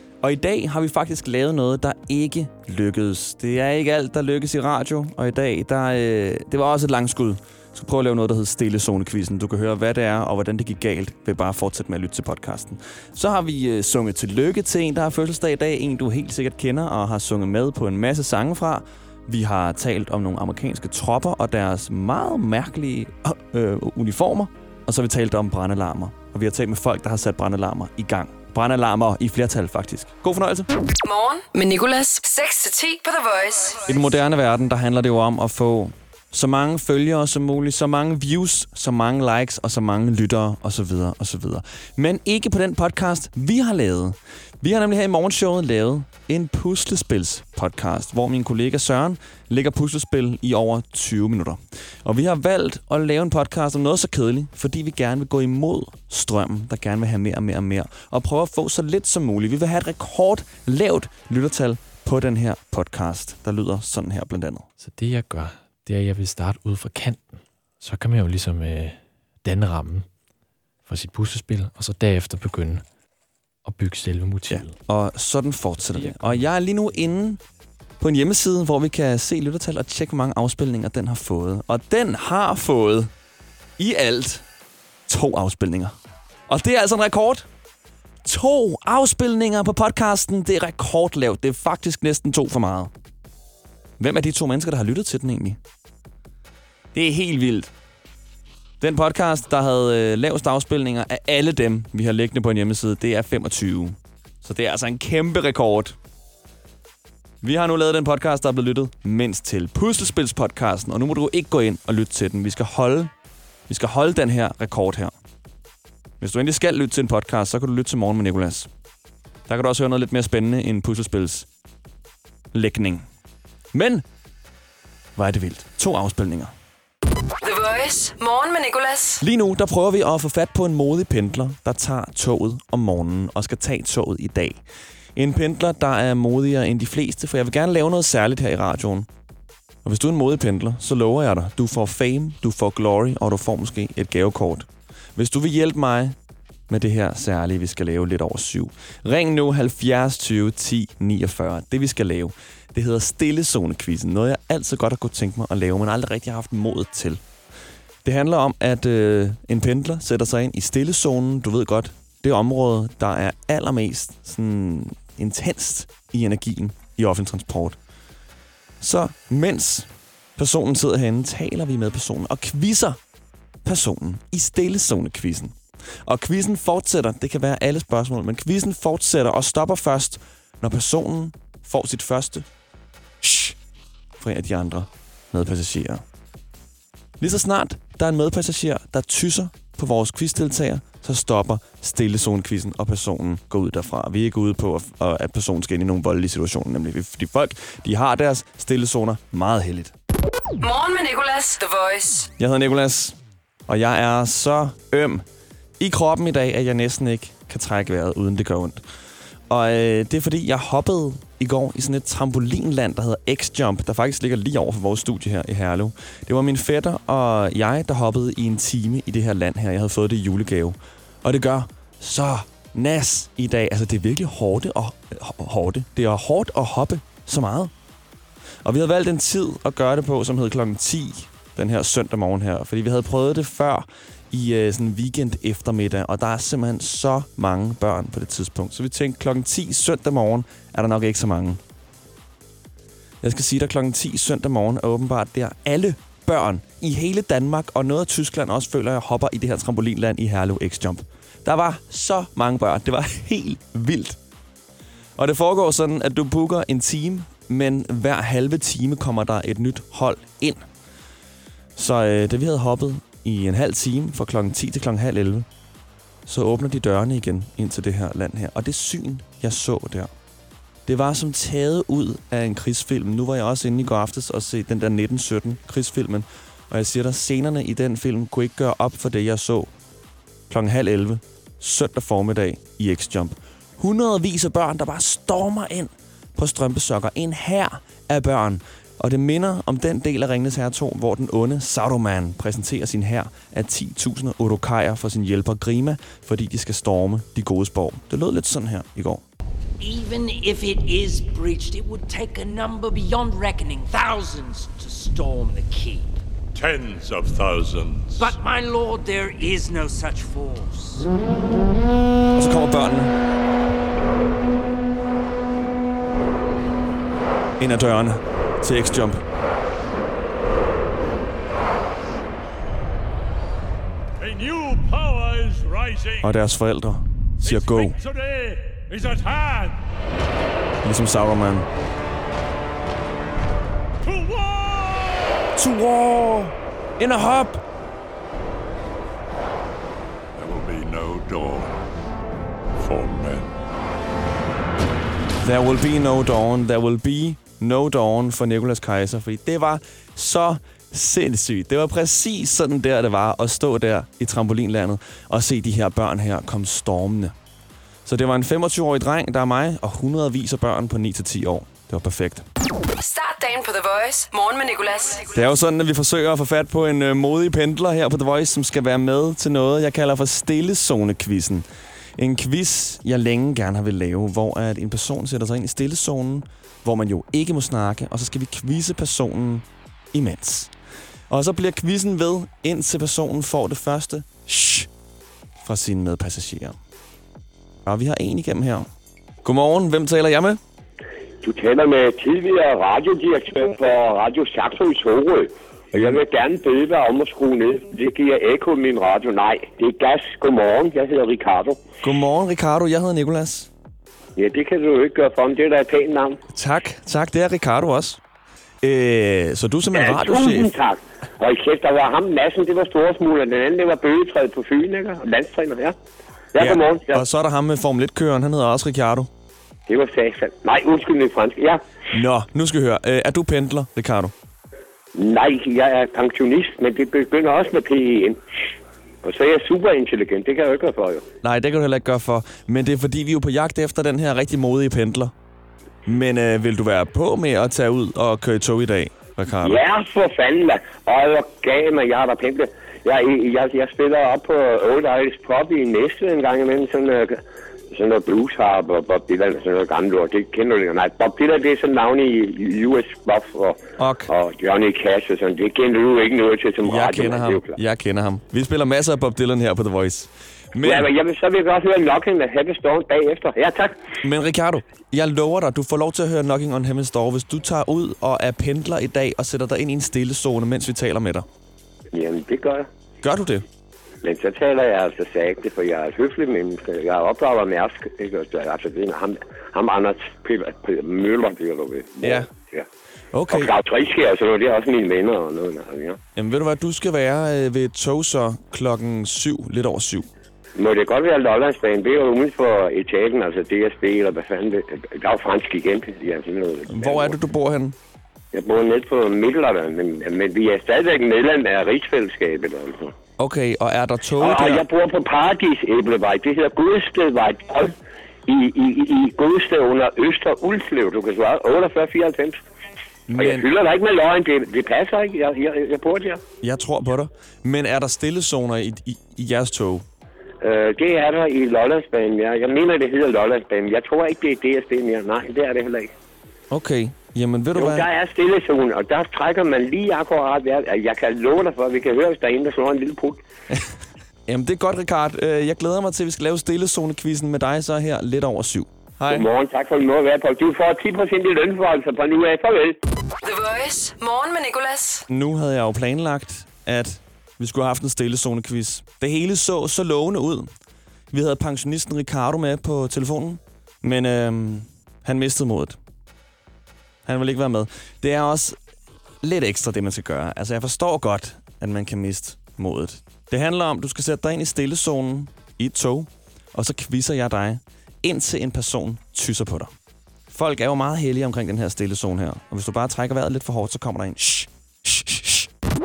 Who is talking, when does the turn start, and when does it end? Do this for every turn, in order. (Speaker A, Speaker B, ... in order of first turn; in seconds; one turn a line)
Speaker A: 0.2-30.7
Speaker B: 31.0-33.8
Speaker A: 33.9-64.7
Speaker C: 64.8-70.1
Speaker C: 70.8-72.8
Speaker C: 73.6-74.8
Speaker A: 74.5-77.4
Speaker C: 75.9-76.5
Speaker A: 78.0-83.1
Speaker A: 83.8-84.4
Speaker A: 85.1-85.9
Speaker A: 86.5-87.5
Speaker A: 88.2-92.9
Speaker A: 94.0-95.6
Speaker A: 96.9-97.7
Speaker A: 98.8-106.0
Speaker A: 107.4-113.1
Speaker A: 113.7-115.1
Speaker A: 116.2-118.7
Speaker A: 119.5-121.5
Speaker A: 122.5-123.0
Speaker A: 123.7-124.0
Speaker A: 125.2-126.5
Speaker B: 127.4-129.2
Speaker A: 129.2-134.6
Speaker A: 135.2-139.1
Speaker A: 139.8-146.2
Speaker A: 146.7-157.2
Speaker A: 158.0-167.8
Speaker A: 168.8-173.0
Speaker A: 173.6-182.4
Speaker A: 183.2-183.6
Speaker A: 184.2-186.0
Speaker A: 187.2-199.9
Speaker B: 200.6-202.3
Speaker A: 202.4-203.2
Speaker A: 203.7-205.2
Speaker A: 205.8-208.8
Speaker A: 209.5-227.7
Speaker A: 228.6-241.6
Speaker A: 243.2-254.2
Speaker A: 255.2-260.6
Speaker A: 261.8-265.5
Speaker A: 266.2-270.1
Speaker A: 270.9-279.7
Speaker A: 280.5-299.2
Speaker D: 299.8-306.2
Speaker E: 306.5-308.3
Speaker D: 308.2-311.1
Speaker A: 312.3-313.1
Speaker A: 317.6-319.2
Speaker E: 324.2-326.3
Speaker A: 326.2-328.0
Speaker E: 327.4-329.8
Speaker A: 330.8-331.7
Speaker E: 334.0-335.4
Speaker A: 335.6-337.6
Speaker E: 340.3-341.7
Speaker E: 342.8-343.5
Speaker A: 345.4-357.3
Speaker A: 358.0-362.4
Speaker B: 363.0-365.3
Speaker A: 365.3-371.6
Speaker A: 372.2-380.7
Speaker A: 381.3-384.9
Speaker A: 385.6-386.8
Speaker A: 387.9-388.9
Speaker A: 389.4-390.6
Speaker F: 391.4-401.8
Speaker A: 402.0-403.7
Speaker F: 404.4-406.4
Speaker A: 406.5-408.2
Speaker A: 408.8-410.7
Speaker F: 409.9-415.9
Speaker F: 416.5-417.2
Speaker A: 416.6-419.3
Speaker F: 419.9-421.8
Speaker A: 422.1-424.3
Speaker F: 425.1-428.4
Speaker F: 429.2-431.2
Speaker A: 431.4-435.3
Speaker A: 436.1-439.8
Speaker F: 439.6-457.8
Speaker A: 454.0-454.3
Speaker A: 456.8-461.1
Speaker F: 460.8-464.0
Speaker A: 464.2-471.4
Speaker F: 472.1-472.9
Speaker A: 473.2-473.6
Speaker F: 474.2-482.9
Speaker A: 482.2-482.5
Speaker A: 483.3-483.7
Speaker F: 483.5-486.2
Speaker A: 486.4-490.3
Speaker F: 490.8-497.3
Speaker A: 496.9-497.9
Speaker F: 498.5-503.1
Speaker A: 503.4-504.8
Speaker F: 504.4-507.9
Speaker F: 508.5-512.6
Speaker A: 513.3-513.7
Speaker F: 513.4-516.4
Speaker A: 516.6-520.0
Speaker F: 520.6-526.1
Speaker A: 526.7-528.1
Speaker F: 527.8-533.4
Speaker A: 534.5-539.5
Speaker F: 539.3-543.0
Speaker B: 543.4-545.2
Speaker A: 545.3-550.7
Speaker A: 551.3-556.0
Speaker A: 557.2-558.8
Speaker A: 559.4-569.9
Speaker A: 570.5-575.7